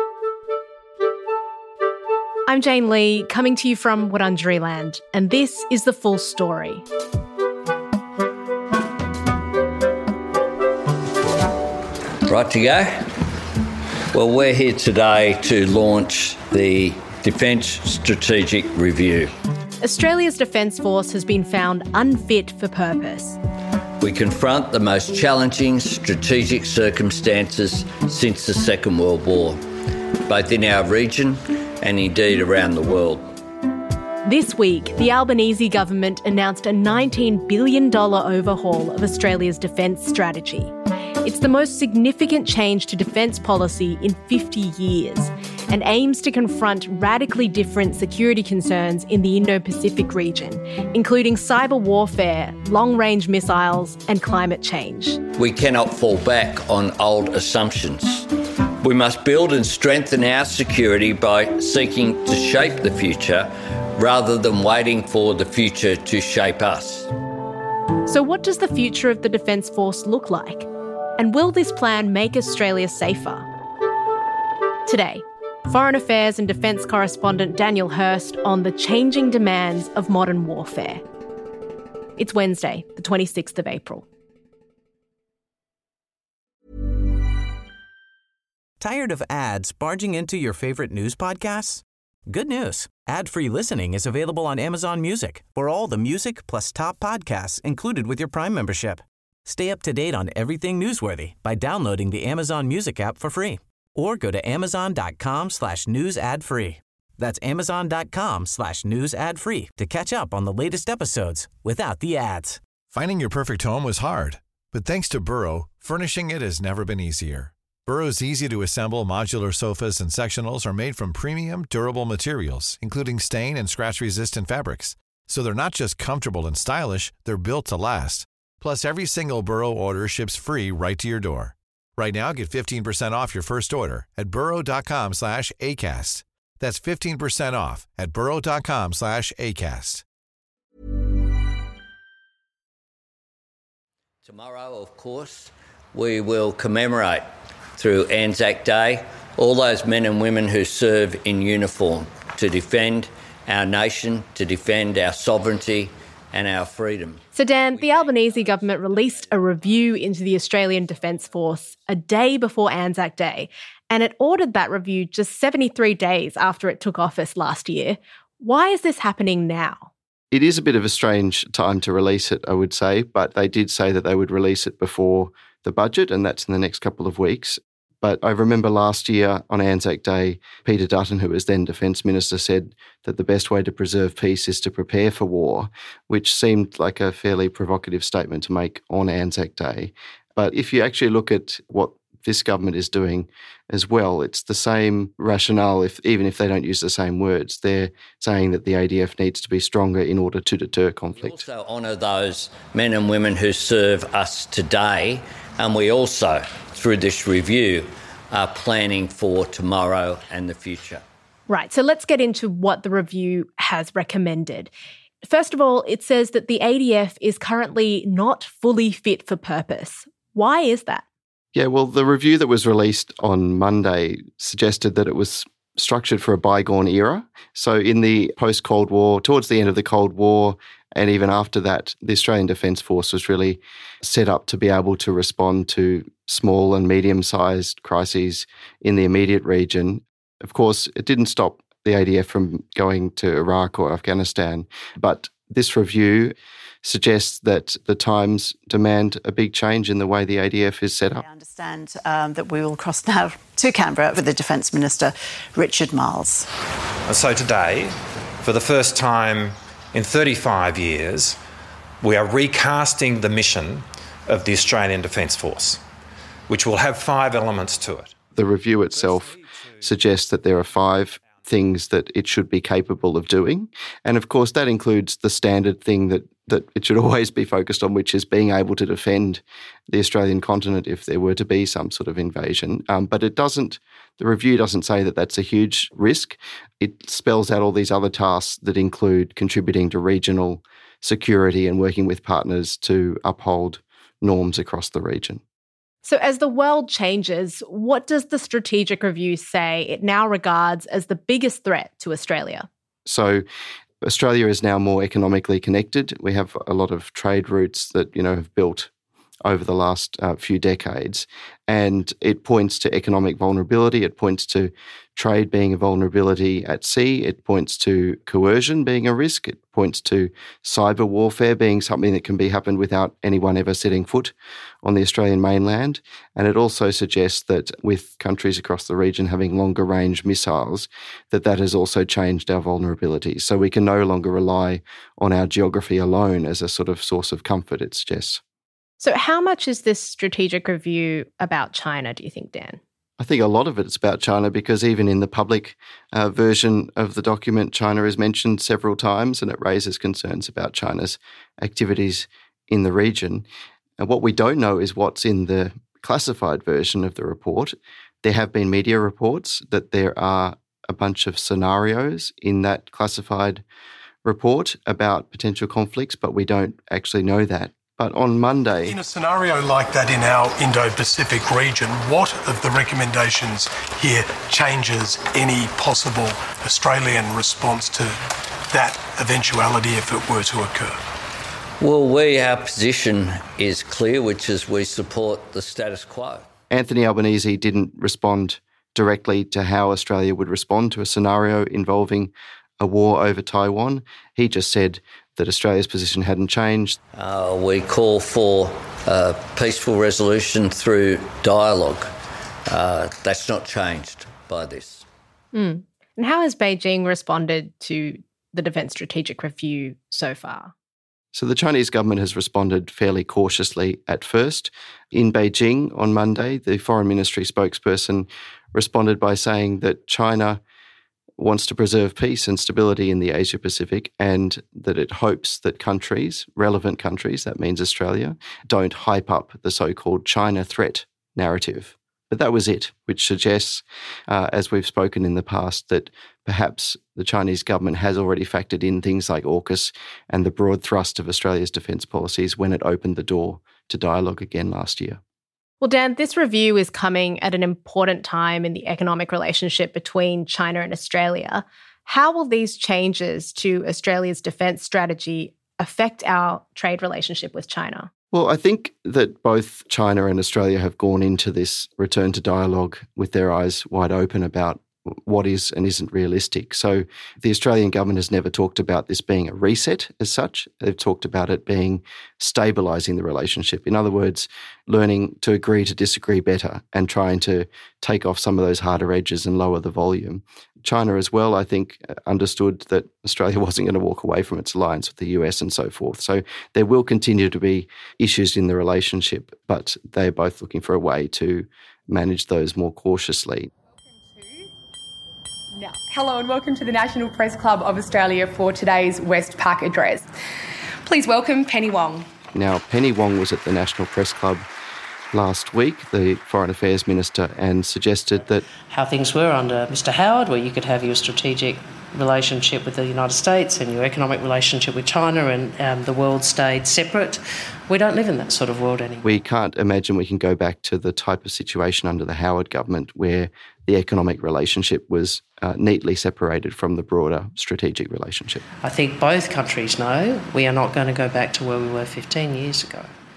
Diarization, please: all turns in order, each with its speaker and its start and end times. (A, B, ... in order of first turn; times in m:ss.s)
0:02.5-0:06.8 A
0:12.3-0:13.1 B
0:14.1-0:19.3 B
0:19.8-0:23.4 A
0:24.0-0:29.6 B
0:30.3-0:33.2 B
0:34.2-0:40.7 A
0:41.2-0:55.2 A
0:55.4-0:58.3 B
0:58.8-1:07.1 B
1:08.0-1:13.4 A
1:14.8-1:21.0 A
1:22.2-1:24.0 A
1:28.8-1:52.6 C
1:52.9-2:20.0 D
2:24.2-2:27.2 B
2:27.8-2:37.2 B
2:37.3-2:49.9 A
2:50.3-3:21.4 E
3:21.1-3:31.0 B
3:31.5-3:34.7 A
3:35.2-3:41.0 A
3:41.5-4:11.2 E
4:11.1-4:16.4 F
4:17.1-4:21.4 G
4:22.0-4:25.8 G
4:26.5-4:28.1 G
4:28.3-4:55.4 E
4:56.0-5:02.7 A
5:03.0-5:03.4 E
5:04.0-5:08.9 E
5:09.4-5:38.4 E
5:39.0-5:42.8 A
5:43.2-5:53.4 E
5:54.0-6:03.6 E
6:04.2-6:09.0 E
6:08.8-6:18.2 H
6:18.7-6:21.0 H
6:21.8-6:26.5 B
6:26.7-6:37.0 E
6:37.1-6:42.1 B
6:42.7-6:45.0 B
6:45.5-6:50.7 A
6:51.3-7:00.6 E
7:01.4-7:25.2 E
7:25.8-7:38.1 A
7:38.3-8:13.7 E
8:14.4-8:14.7 I
8:15.7-8:20.2 I
8:21.0-8:22.3 I
8:22.5-8:24.7 E
8:25.3-8:28.6 E
8:28.9-8:39.3 J
8:39.2-8:48.6 E
8:48.8-8:53.1 J